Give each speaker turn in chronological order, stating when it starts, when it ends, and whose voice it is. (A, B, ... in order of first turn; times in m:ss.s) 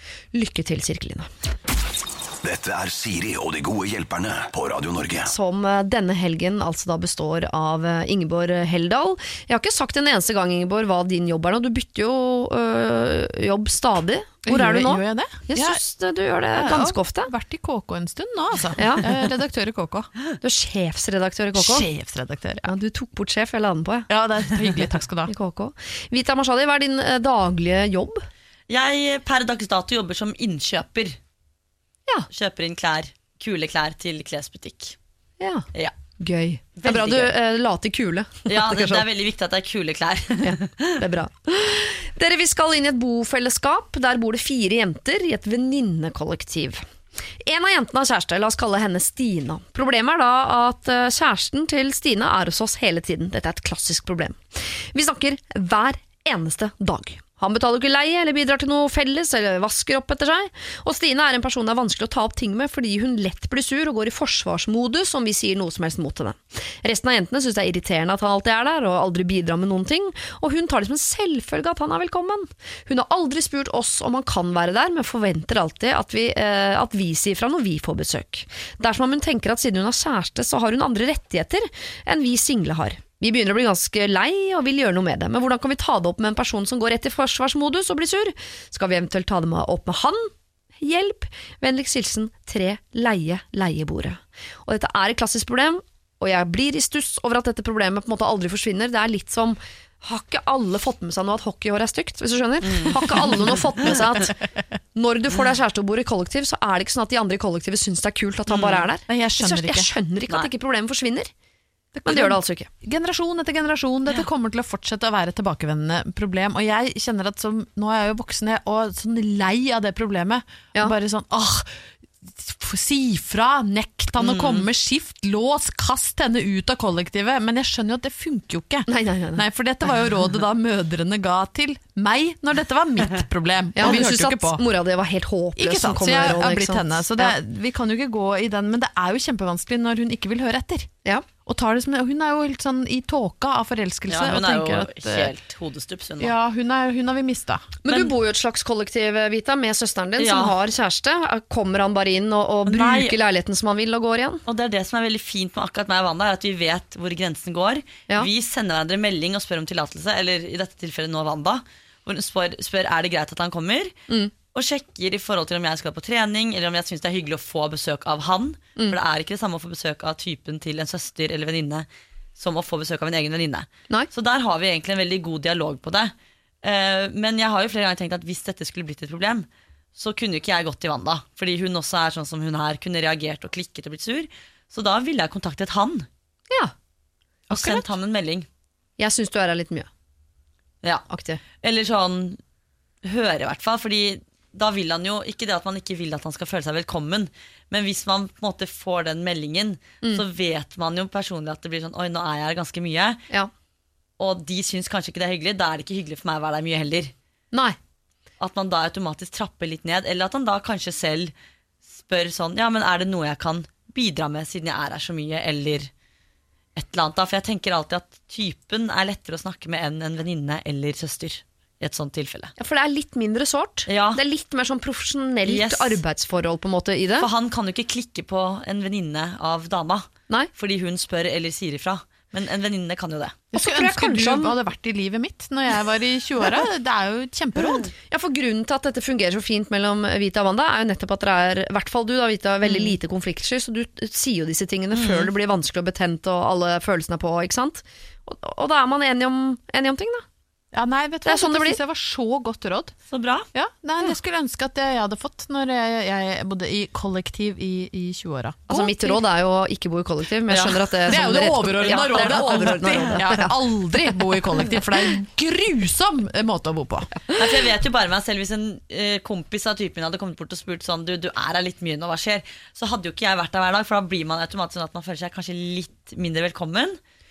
0:00.3-0:01.3 A
0:02.4-0:05.3 B
0:05.3-0:17.3 A
0:14.4-0:15.8 C
0:16.5-0:20.1 C
0:18.8-0:19.0 A
0:20.4-0:21.9 A
0:21.5-0:22.6 C
0:22.6-0:24.1 A
0:24.1-0:25.3 C
0:25.2-0:28.2 A
0:28.7-0:31.2 D
0:32.3-0:35.0 D
0:35.4-0:35.6 A
0:36.2-0:39.0 A
0:36.8-0:37.3 D
0:38.5-0:41.0 D
0:40.4-0:46.8 A
0:47.4-1:44.4 A
1:42.6-1:43.0 D
1:44.9-1:51.3 A
1:48.5-1:48.8 D
1:49.1-1:49.9 C
1:51.9-1:52.7 A
1:52.0-2:14.6 C
2:04.2-2:04.6 D
2:08.9-2:09.4 A
2:13.8-2:17.3 A
2:15.6-2:20.9 C
2:21.4-2:25.3 C
2:24.1-2:26.3 D
2:26.2-2:27.7 C
2:27.8-2:34.4 A
2:30.2-2:30.5 D
2:32.6-2:33.2 D
2:34.5-2:43.9 D
2:44.5-3:06.1 D
3:07.5-3:08.5 D
3:07.5-3:07.8 C
3:09.0-3:09.9 A
3:11.1-3:11.4 A
3:11.6-3:12.4 D
3:13.0-3:23.2 D
3:24.2-3:27.1 D
3:27.5-3:27.8 A
3:28.4-3:31.3 D
3:31.9-3:35.9 D
3:36.8-3:42.5 D
3:42.6-3:47.3 A
3:43.9-3:44.2 D
3:45.4-3:46.0 D
3:47.2-3:53.4 D
3:53.5-3:57.9 C
3:53.5-3:54.5 A
3:57.9-4:10.2 A
4:02.6-4:02.9 D
4:04.9-4:05.3 D
4:10.7-4:12.9 C
4:11.2-4:11.8 A
4:13.1-4:13.5 D
4:13.5-4:19.2 C
4:18.7-4:24.8 A
4:20.5-4:20.9 D
4:21.1-4:27.1 C
4:21.8-4:23.2 D
4:27.3-4:37.0 D